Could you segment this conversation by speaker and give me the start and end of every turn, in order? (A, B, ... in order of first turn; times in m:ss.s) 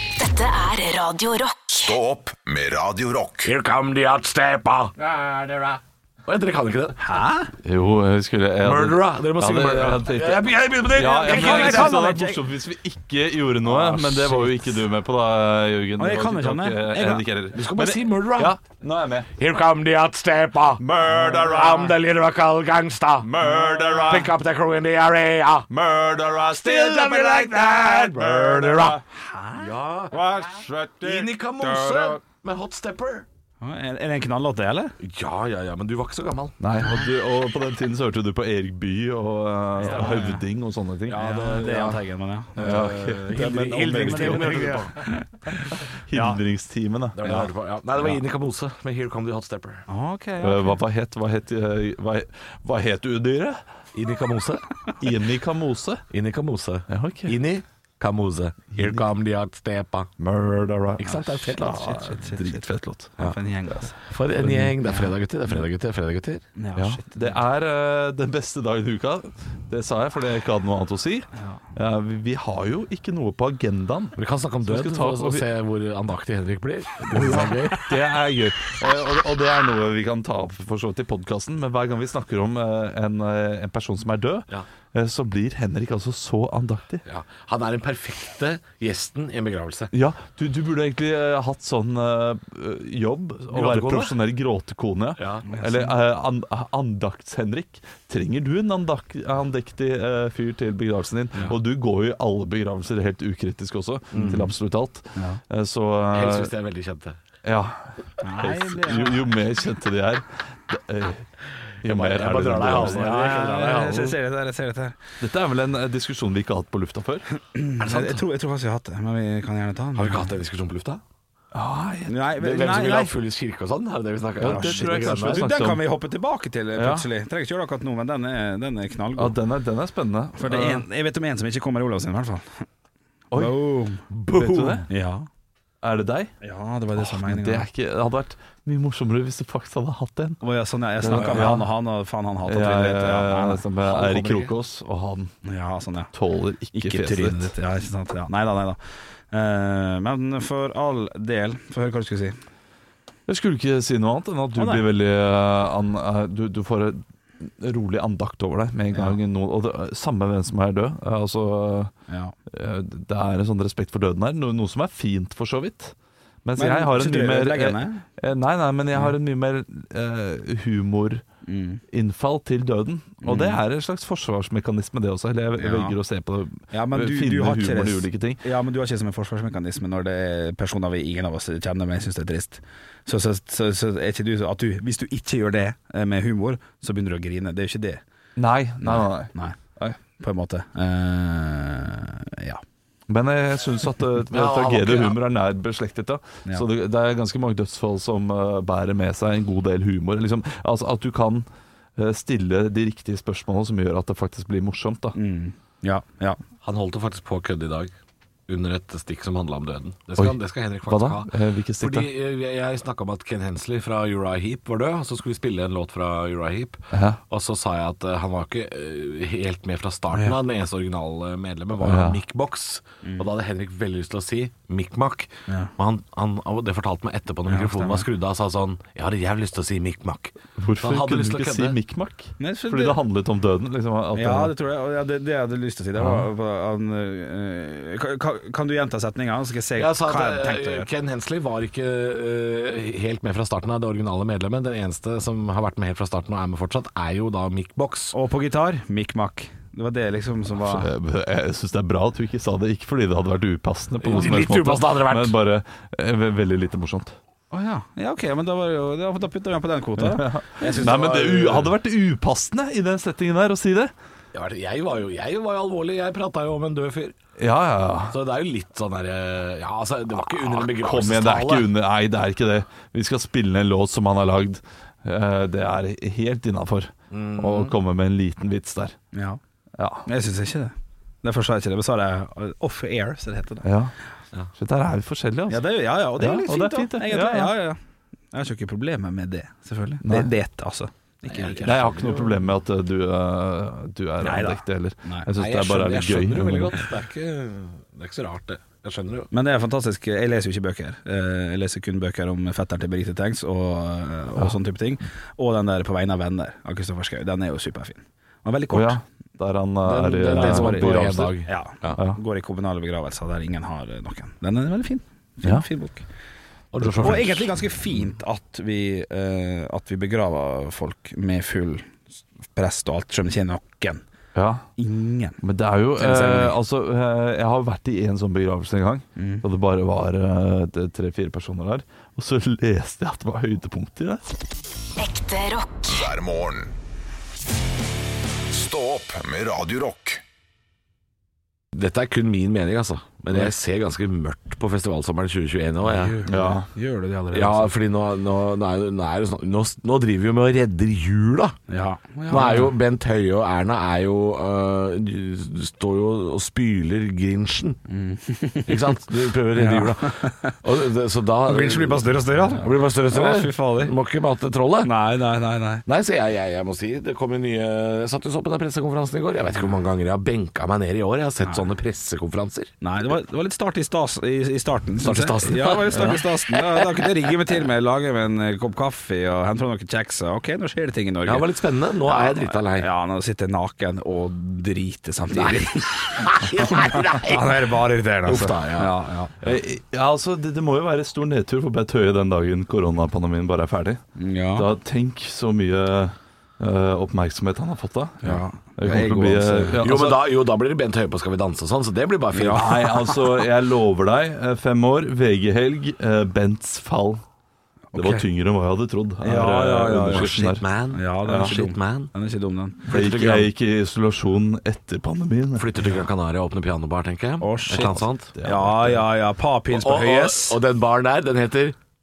0:00.2-0:02.0 A
0:01.7-0:03.5 B
0:03.4-0:07.1 C
0:07.0-0:07.5 D
0:07.6-0:19.3 E
0:08.6-0:12.0 C
0:11.1-0:12.4 D
0:13.6-0:14.7 C
0:16.0-0:17.3 D
0:17.5-0:18.6 C
0:19.4-0:23.4 C
0:20.8-0:21.9 E
0:23.2-0:24.3 E
0:24.0-0:25.7 C
0:25.7-0:29.0 E
0:26.5-0:29.0 C
0:29.1-0:29.7 D
0:29.6-0:30.2 C
0:30.1-0:32.2 E
0:31.0-0:33.3 C
0:33.6-0:34.9 D
0:35.0-0:36.6 C
0:36.6-0:42.0 E
0:39.8-0:40.4 D
0:39.8-0:40.4 C
0:41.1-0:42.0 C
0:41.1-0:46.4 D
0:42.6-0:45.2 C
0:42.6-0:44.8 E
0:45.7-0:47.5 E
0:47.2-0:49.9 C
0:49.9-0:50.8 D
0:50.4-0:53.6 E
0:53.9-0:54.6 C
0:55.0-0:56.0 E
0:56.1-1:00.1 C
0:56.9-0:57.4 E
0:58.8-0:59.0 E
1:00.2-1:03.4 E
1:01.0-1:02.0 C
1:01.7-1:04.0 D
1:04.1-1:06.4 C
1:04.4-1:04.8 E
1:06.6-1:07.4 D
1:06.8-1:15.4 E
1:11.4-1:11.6 D
1:14.2-1:17.9 C
1:17.1-1:27.0 E
1:27.1-1:29.9 C
1:29.9-1:46.5 E
1:33.5-1:34.2 C
1:35.2-1:35.5 C
1:35.5-1:35.9 D
1:44.1-1:44.5 C
1:46.1-1:47.2 C
1:47.4-1:51.3 E
1:48.2-1:49.4 D
1:51.8-1:53.2 E
1:51.8-1:54.2 C
1:52.9-1:55.0 D
1:55.2-1:57.3 E
1:57.5-2:00.3 D
1:57.8-1:58.2 C
2:00.0-2:01.0 C
2:01.5-2:02.4 E
2:02.1-2:03.2 D
2:02.4-2:05.5 C
2:04.4-2:05.8 E
2:04.4-2:09.4 D
2:06.8-2:07.1 E
2:09.2-2:10.8 E
2:10.4-2:12.6 D
2:13.3-2:14.9 E
2:13.3-2:15.3 D
2:14.5-2:14.8 C
2:15.8-2:16.3 E
2:16.4-2:17.7 D
2:17.0-2:20.4 E
2:20.4-2:23.6 D
2:21.0-2:21.7 E
2:21.1-2:21.4 C
2:22.4-2:25.3 E
2:23.8-2:24.5 C
2:25.4-2:26.1 D
2:26.1-2:27.5 E
2:26.7-2:28.8 D
2:29.3-2:32.4 D
2:33.3-2:41.9 E
2:34.6-2:34.8 D
2:38.9-2:39.2 D
2:42.1-2:42.4 D
2:42.5-2:51.2 E
2:46.6-2:48.0 D
2:51.4-2:51.8 D
2:51.9-2:58.4 E
2:53.2-2:53.6 D
2:55.6-2:56.0 D
2:56.7-3:08.0 D
3:08.4-3:09.3 E
3:08.8-3:12.6 D
3:13.1-3:25.2 E
3:14.3-3:15.2 C
3:25.2-3:26.4 D
3:26.6-3:27.9 C
3:28.5-3:51.8 C
3:30.2-3:32.1 E
3:36.9-3:37.2 E
3:41.8-3:42.2 E
3:47.5-3:48.1 D
3:50.6-3:54.6 E
3:52.4-3:53.0 D
3:54.1-4:00.9 D
3:56.0-3:56.3 E
3:59.8-4:08.2 C
4:08.1-4:10.9 D
4:10.6-4:17.2 E
4:14.0-4:15.4 C
4:17.5-4:21.1 D
4:20.0-4:23.9 E
4:20.6-4:21.7 C
4:24.3-4:27.2 C
4:27.4-4:28.2 E
4:28.1-4:31.7 C
4:30.6-4:39.0 E
4:37.1-4:37.7 C
4:39.1-4:39.4 D
4:39.8-4:40.1 E
4:40.1-4:43.7 D
4:43.6-4:43.9 E
4:44.6-4:45.6 E
4:45.5-4:47.8 D
4:46.2-4:47.5 E
4:48.3-4:51.8 D
4:50.0-4:50.3 E
4:51.3-4:52.4 C
4:51.6-4:56.8 E
4:54.2-4:55.3 D
4:55.4-4:59.3 C
4:59.3-5:09.0 D
5:08.7-5:11.4 E
5:09.8-5:12.0 C
5:10.2-5:16.0 D
5:16.7-5:17.5 C
5:16.8-5:17.3 E
5:17.0-5:22.0 D
5:22.5-5:24.0 D
5:24.4-5:24.6 E
5:24.8-5:25.4 D
5:25.4-5:34.2 E
5:26.0-5:26.6 D
5:29.2-5:29.4 D
5:35.0-5:36.1 A
5:35.9-5:36.7 B
5:38.5-5:40.2 B
5:41.7-5:46.2 C
5:45.8-5:47.8 D
5:46.3-5:46.7 E
5:47.3-5:51.6 C
5:51.7-5:52.7 D
5:52.3-5:57.8 C
5:57.9-5:59.0 D
5:58.7-6:04.9 C
5:59.5-6:00.6 D
6:01.4-6:03.9 D
6:04.8-6:05.8 D
6:05.9-6:12.7 C
6:12.8-6:29.3 D
6:15.0-6:17.1 C
6:21.2-6:22.9 C
6:25.3-6:28.9 C
6:29.4-6:34.0 E
6:34.2-6:34.7 D
6:34.6-6:40.3 E
6:38.2-6:39.9 D
6:39.8-6:43.0 C
6:42.3-6:43.1 D
6:42.5-6:47.2 E
6:47.9-6:48.3 D
6:47.9-6:50.6 E
6:49.2-6:52.9 D
6:50.1-6:52.1 C
6:51.2-6:51.6 E
6:52.9-6:53.5 C
6:52.9-6:55.7 E
6:55.6-6:58.3 C
6:57.4-7:00.6 D
6:57.8-6:59.0 E
6:59.7-7:01.8 C